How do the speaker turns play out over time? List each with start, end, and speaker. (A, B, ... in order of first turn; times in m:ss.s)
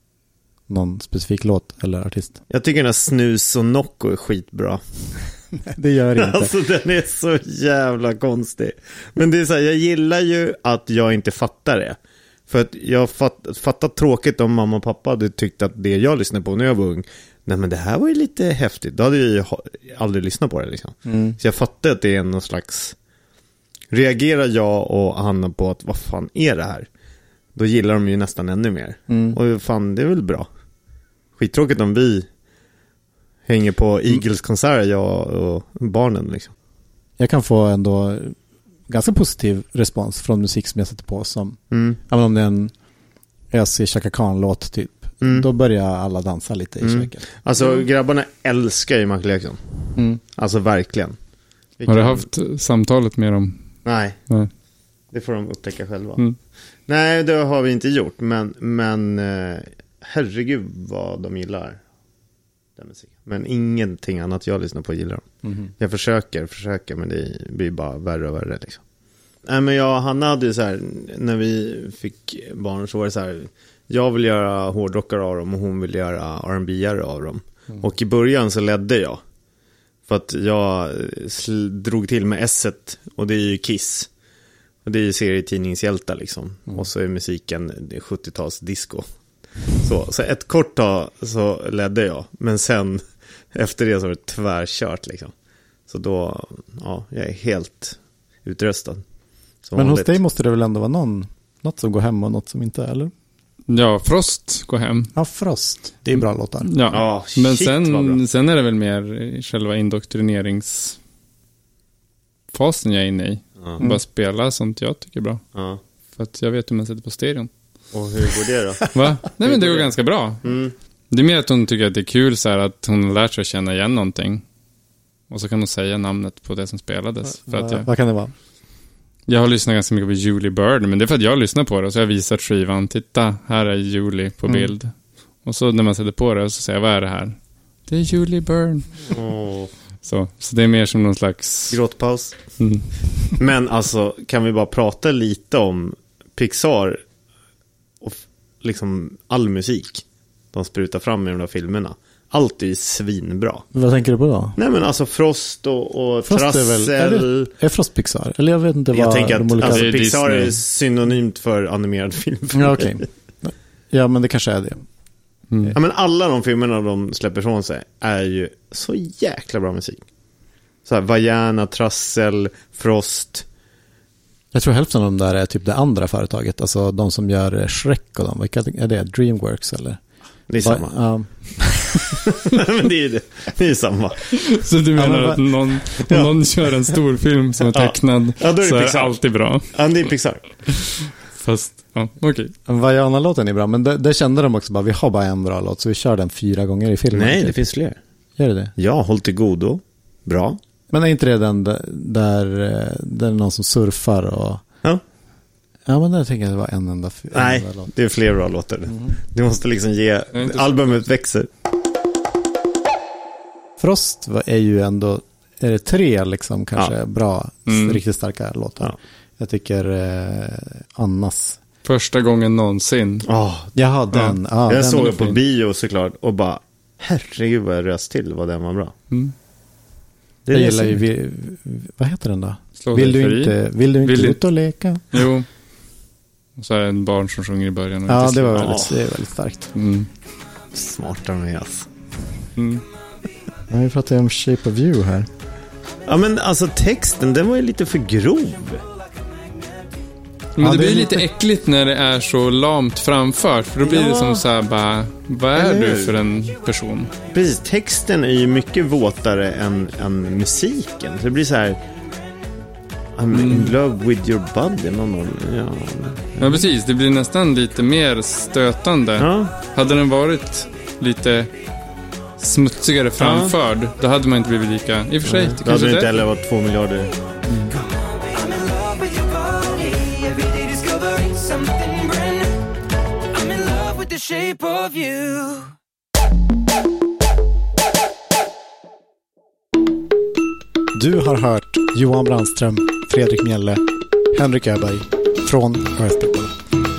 0:00.7-0:02.4 A
0:02.5-0:04.8 B
0:05.6-0:06.5 A
0:06.2-0:12.0 B
0:12.5-0:22.9 B
0:21.0-0:21.4 A
0:23.9-0:26.9 B
0:27.6-0:30.5 B
0:29.1-0:29.4 A
0:31.4-0:32.2 B
0:33.5-0:36.5 B
0:37.2-0:38.3 A
0:38.9-0:42.7 A
0:41.7-0:42.0 B
0:43.5-0:47.3 A
0:45.2-0:45.5 B
0:46.8-0:49.6 B
0:50.4-0:51.2 B
0:51.8-0:52.3 B
0:51.9-0:53.6 C
0:53.8-0:54.2 B
0:55.1-0:56.2 B
0:56.9-1:01.8 B
1:02.8-1:05.2 B
1:05.8-1:08.8 B
1:09.4-1:19.2 B
1:20.1-1:24.1 B
1:24.8-1:29.0 B
1:29.8-1:33.0 B
1:33.5-1:35.3 B
1:35.9-1:39.0 B
1:39.6-1:40.2 B
1:39.8-1:43.1 A
1:43.7-1:45.1 C
1:45.1-1:46.7 A
1:46.1-1:51.0 C
1:46.9-1:48.2 B
1:52.5-1:55.4 C
1:55.5-1:55.8 B
1:56.2-1:57.5 C
1:57.9-2:00.7 B
1:58.9-2:00.4 C
2:01.1-2:04.4 C
2:05.3-2:07.9 C
2:07.4-2:08.3 A
2:09.3-2:14.9 C
2:15.4-2:19.0 C
2:19.1-2:19.7 B
2:20.0-2:21.8 C
2:21.7-2:22.4 B
2:22.6-2:22.9 C
2:23.4-2:27.0 B
2:28.0-2:33.6 B
2:33.7-2:34.6 A
2:34.6-2:37.5 B
2:36.2-2:39.9 A
2:38.9-2:43.0 B
2:39.6-2:40.6 C
2:42.5-2:44.8 A
2:45.5-2:45.8 C
2:45.7-2:50.0 B
2:50.8-2:53.4 B
2:54.5-3:00.0 A
3:00.5-3:00.9 B
3:00.6-3:02.2 A
3:02.1-3:04.3 B
3:04.3-3:09.7 C
3:05.0-3:05.4 A
3:06.1-3:06.4 B
3:07.6-3:09.2 B
3:09.7-3:10.4 B
3:11.2-3:12.5 C
3:12.7-3:17.6 A
3:17.1-3:18.0 B
3:18.4-3:18.7 A
3:18.8-3:20.6 B
3:20.9-3:24.6 A
3:25.9-3:27.9 A
3:27.3-3:31.5 B
3:30.3-3:30.8 C
3:33.8-3:41.6 A
3:37.7-3:38.0 C
3:41.8-3:43.3 C
3:43.3-3:43.8 B
3:43.7-3:45.4 A
3:44.7-3:48.9 B
3:50.4-3:51.0 B
3:50.5-3:55.2 A
3:52.8-3:54.4 C
3:55.1-3:55.5 C
3:56.6-3:58.9 C
3:58.1-3:59.7 A
3:58.6-3:58.9 B
3:59.7-4:00.1 C
4:00.7-4:01.9 B
4:02.6-4:02.8 C
4:03.7-4:05.3 A
4:06.1-4:08.8 B
4:10.6-4:17.1 C
4:10.6-4:11.2 A
4:13.8-4:14.4 B
4:15.5-4:16.2 B
4:17.3-4:21.8 B
4:23.2-4:26.6 B
4:23.3-4:23.8 C
4:26.4-4:31.5 C
4:29.2-4:29.5 B
4:32.4-4:36.2 C
4:33.2-4:33.5 B
4:35.2-4:37.2 B
4:38.3-4:42.6 D
4:43.3-4:45.7 D
4:50.9-4:56.5 A